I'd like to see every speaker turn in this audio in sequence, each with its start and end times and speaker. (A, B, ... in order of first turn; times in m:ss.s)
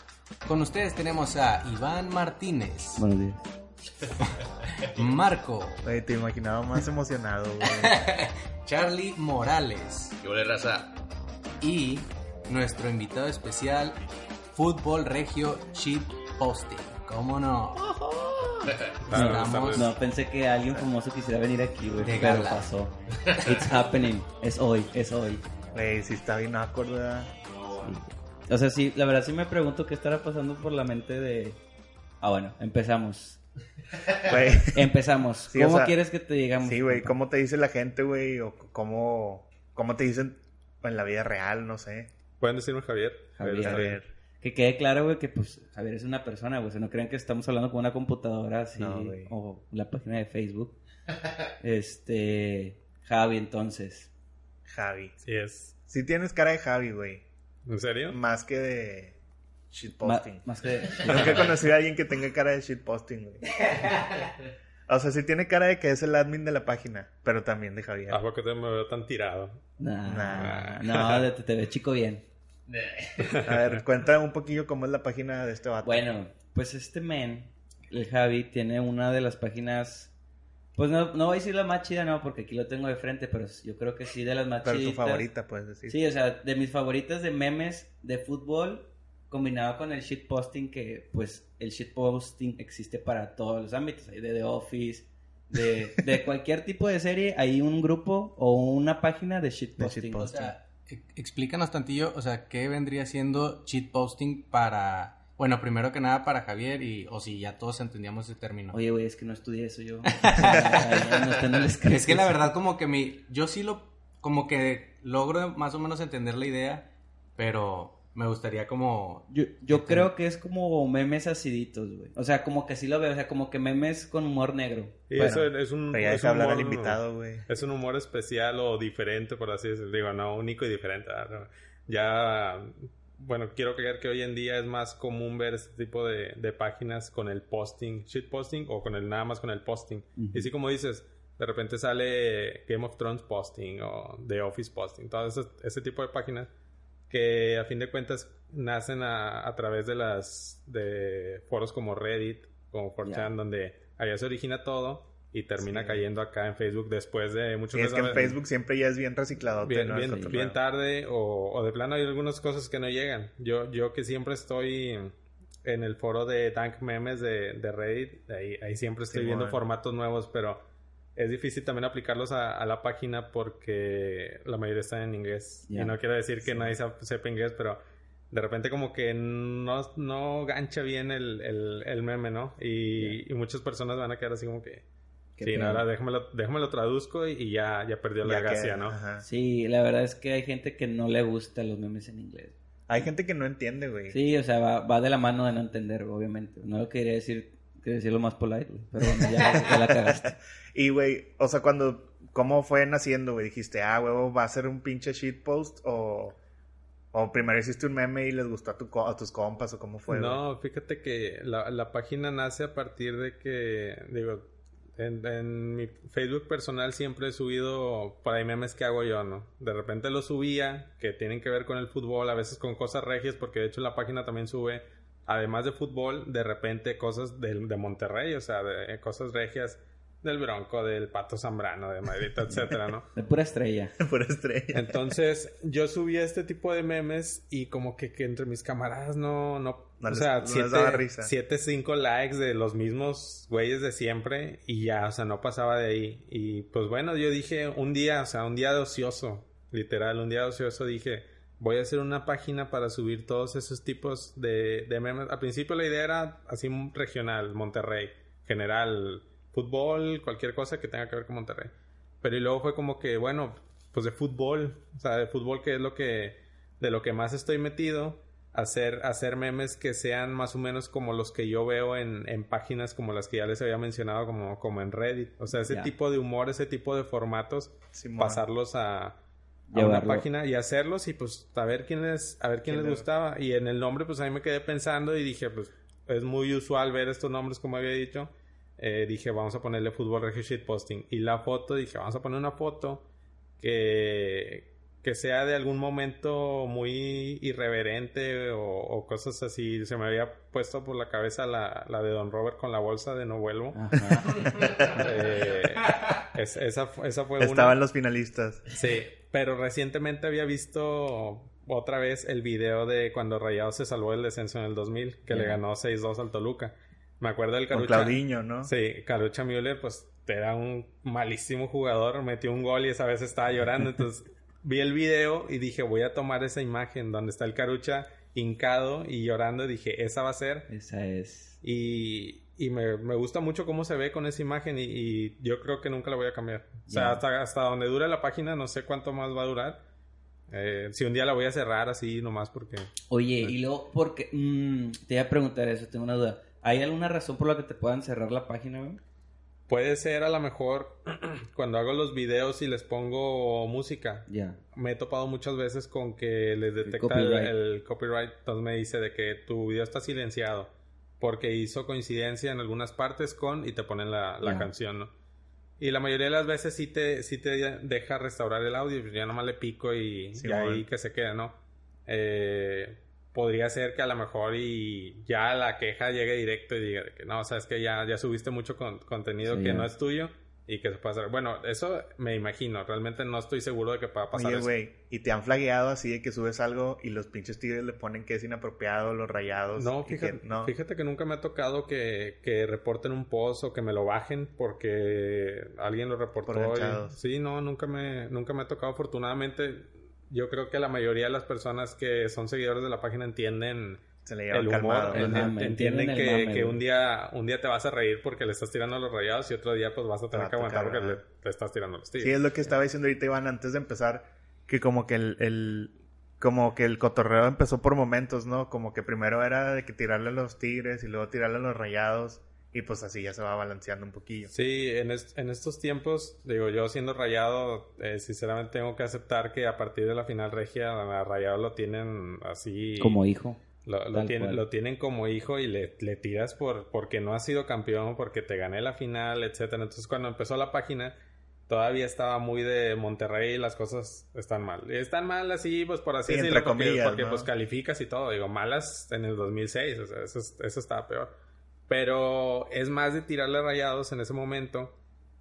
0:00.4-0:03.0 A
0:03.0-0:03.4 B
0:04.8-0:05.8 A
0:05.8-0:08.0 C
0:07.7-0:10.1 A
0:10.2-0:11.0 D
0:11.6-0:14.0 A
0:14.5-0:18.5 A
0:18.7-0:19.0 D
0:19.0-0:19.9 E
0:19.1-0:19.9 A
0:19.1-0:25.4 B
0:22.0-0:22.7 A
0:23.3-0:23.6 D
0:25.7-0:27.3 C
0:27.8-0:31.6 B
0:32.2-0:33.4 B
0:34.2-0:34.9 C
0:34.6-0:37.2 B
0:35.5-0:36.0 C
0:36.6-0:42.1 C
0:42.4-0:44.0 E
0:43.4-0:50.8 B
0:43.6-0:44.1 C
0:48.8-0:49.3 C
0:51.6-0:54.1 B
0:54.7-0:55.2 C
0:55.2-0:55.7 E
0:55.9-0:57.2 C
0:57.7-0:58.2 E
0:58.1-0:59.2 C
0:59.7-1:03.6 C
1:00.0-1:01.1 B
1:01.0-1:01.5 E
1:01.1-1:01.3 D
1:03.8-1:04.3 D
1:04.9-1:08.2 C
1:08.1-1:09.6 E
1:09.8-1:12.2 B
1:10.1-1:10.7 C
1:10.3-1:11.3 E
1:12.7-1:13.4 D
1:13.2-1:13.8 E
1:13.4-1:16.1 C
1:15.8-1:20.1 B
1:20.8-1:25.3 B
1:24.6-1:26.0 C
1:25.9-1:40.5 B
1:39.8-1:40.5 C
1:40.2-1:48.8 A
1:48.7-1:52.5 B
1:50.1-2:00.1 A
1:59.3-2:05.4 B
2:05.1-2:26.5 E
2:05.2-2:07.5 C
2:20.2-2:20.5 B
2:27.1-2:38.3 E
2:33.0-2:33.3 B
2:35.6-2:36.0 C
2:37.7-2:40.6 C
2:39.6-2:50.6 E
2:40.0-2:40.4 B
2:49.1-2:49.6 C
2:51.2-2:57.8 E
2:55.7-2:55.9 B
2:56.4-2:56.8 C
2:58.3-3:04.8 E
3:05.4-3:05.8 B
3:05.4-3:09.0 E
3:08.2-3:09.2 C
3:09.2-3:12.6 B
3:12.9-3:14.2 C
3:14.1-3:20.4 B
3:19.3-3:26.4 C
3:27.1-3:30.4 C
3:30.1-3:53.1 E
3:52.5-3:54.0 B
3:54.0-3:55.0 C
3:54.7-4:39.2 E
4:00.0-4:01.3 C
4:35.6-4:35.9 B
4:37.9-4:38.4 C
4:39.7-4:40.3 B
4:39.7-4:53.0 E
4:42.7-4:43.1 C
4:53.6-5:04.1 E
5:03.8-5:04.5 B
5:04.4-5:04.8 A
5:04.6-5:05.2 C
5:04.9-5:07.8 E
5:07.4-5:08.7 C
5:08.7-5:30.7 E
5:15.3-5:15.6 B
5:17.7-5:18.7 C
5:30.7-5:31.6 B
5:31.6-5:39.8 E
5:36.9-5:37.2 B
5:40.5-5:42.9 E
5:43.1-5:49.0 B
5:49.7-6:05.1 E
5:54.3-5:54.6 B
5:56.8-5:57.5 B
6:04.4-6:04.7 B
6:05.8-6:24.7 E
6:10.4-6:10.9 C
6:19.4-6:19.9 B
6:24.3-6:30.7 C
6:29.8-6:52.4 E
6:36.5-6:37.2 C
6:44.2-6:45.5 C
6:45.1-6:46.8 B
6:50.3-6:51.2 C
6:52.2-7:04.5 C
7:04.5-7:13.2 E
7:13.0-7:13.6 B
7:13.8-7:21.2 E
7:14.1-7:14.6 B
7:21.7-7:31.3 E
7:26.3-7:27.5 C
7:31.9-7:35.0 E